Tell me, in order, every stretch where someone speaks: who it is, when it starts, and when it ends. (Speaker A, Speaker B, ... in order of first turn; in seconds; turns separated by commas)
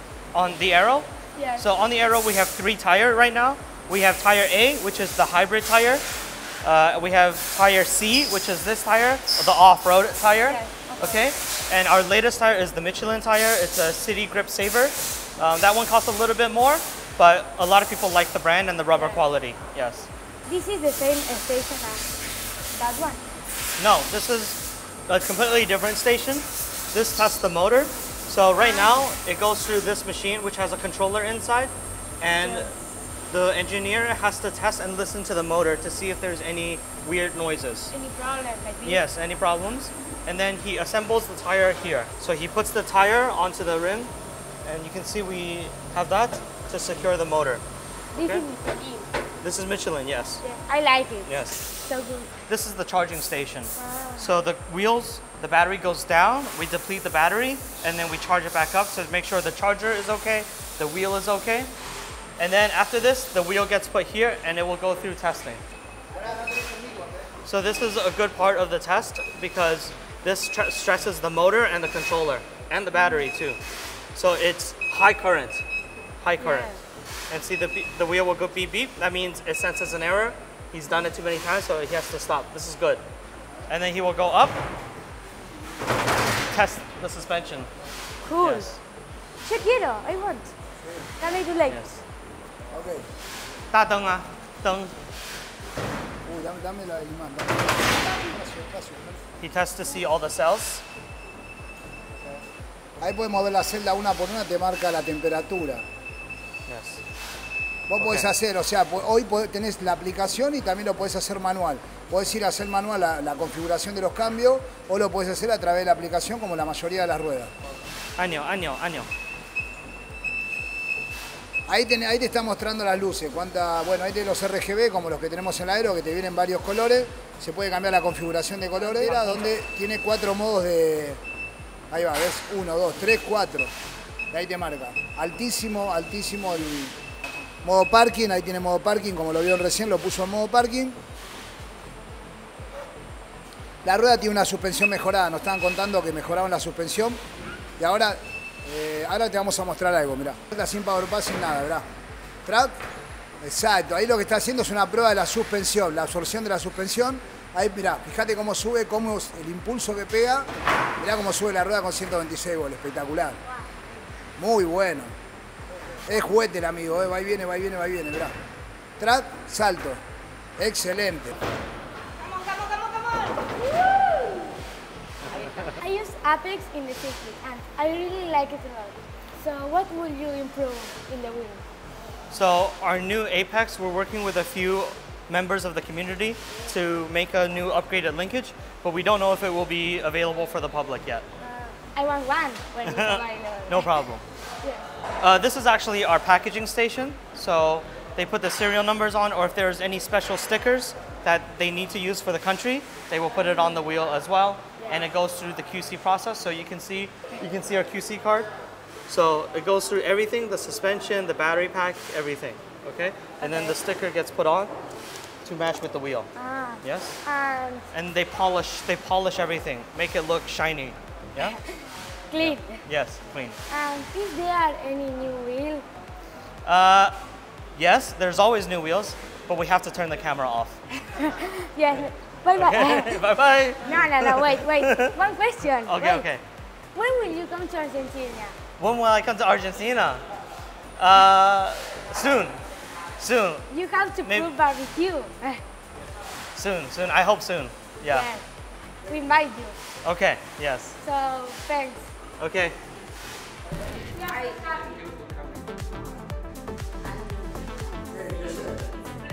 Speaker A: 0.3-6.0, Speaker B: 1.4-1.6, Speaker A: 6.6-20.1, Speaker B: 10.4-11.3, Speaker B: 18.9-19.2, Speaker B: 20.4-22.1, Speaker B: 22.7-23.2, Speaker A: 23.8-32.7, Speaker B: 28.6-28.9, Speaker B: 32.4-32.7, Speaker A: 33.3-37.9, Speaker B: 37.9-39.0, Speaker A: 38.8-44.1, Speaker A: 44.6-47.6, Speaker B: 48.1-49.1, Speaker A: 48.1-48.4, Speaker A: 49.4-50.4, Speaker B: 50.4-52.3, Speaker A: 51.2-51.6, Speaker A: 52.5-61.7, Speaker B: 53.8-54.3, Speaker A: 62.4-65.6, Speaker C: 66.1-67.3, Speaker A: 67.4-73.6, Speaker B: 72.9-73.2, Speaker A: 74.1-75.6, Speaker A: 76.2-76.7, Speaker B: 76.4-76.8, Speaker A: 77.3-83.0, Speaker A: 83.7-84.6, Speaker A: 86.5-87.7, Speaker B: 88.2-88.7, Speaker A: 88.4-88.8, Speaker B: 89.4-90.5, Speaker C: 90.8-91.2, Speaker B: 91.2-91.8, Speaker A: 91.7-92.0, Speaker C: 92.7-93.1, Speaker A: 93.7-94.9, Speaker C: 96.2-99.2, Speaker A: 99.4-100.8, Speaker C: 103.0-105.8, Speaker A: 106.7-107.0, Speaker C: 107.9-117.5, Speaker A: 108.0-108.3, Speaker A: 118.2-119.1, Speaker C: 121.7-131.2, Speaker C: 131.9-133.7, Speaker C: 134.3-136.9, Speaker C: 137.6-141.0, Speaker C: 143.8-147.2, Speaker C: 147.8-151.8, Speaker C: 152.4-152.7, Speaker C: 153.4-160.5, Speaker C: 161.0-163.4, Speaker C: 164.4-165.1, Speaker C: 166.1-168.3, Speaker C: 169.0-170.0, Speaker C: 170.6-171.3, Speaker B: 175.6-181.6, Speaker A: 182.3-191.2, Speaker B: 191.4-193.9, Speaker A: 192.8-194.2, Speaker A: 195.2-208.5, Speaker B: 204.8-205.1, Speaker A: 209.1-214.7, Speaker B: 213.4-213.8, Speaker A: 215.4-216.3, Speaker B: 216.3-217.9, Speaker A: 216.8-217.2, Speaker A: 217.9-221.6, Speaker B: 221.4-221.7, Speaker B: 222.3-222.8, Speaker A: 222.4-223.6, Speaker B: 223.7-225.8, Speaker A: 226.6-227.2, Speaker A: 227.7-230.8, Speaker B: 231.1-233.2, Speaker A: 232.6-235.2, Speaker B: 233.8-236.2, Speaker A: 235.8-236.4, Speaker B: 236.9-238.6, Speaker A: 238.8-240.2, Speaker A: 241.0-242.6, Speaker A: 243.2-243.7, Speaker B: 243.7-245.6, Speaker A: 244.2-244.5, Speaker A: 246.5-248.3, Speaker B: 248.0-248.4, Speaker B: 249.0-249.8, Speaker A: 250.0-250.9, Speaker B: 251.0-252.1, Speaker A: 252.4-252.8, Speaker B: 254.2-254.9, Speaker C: 258.1-258.8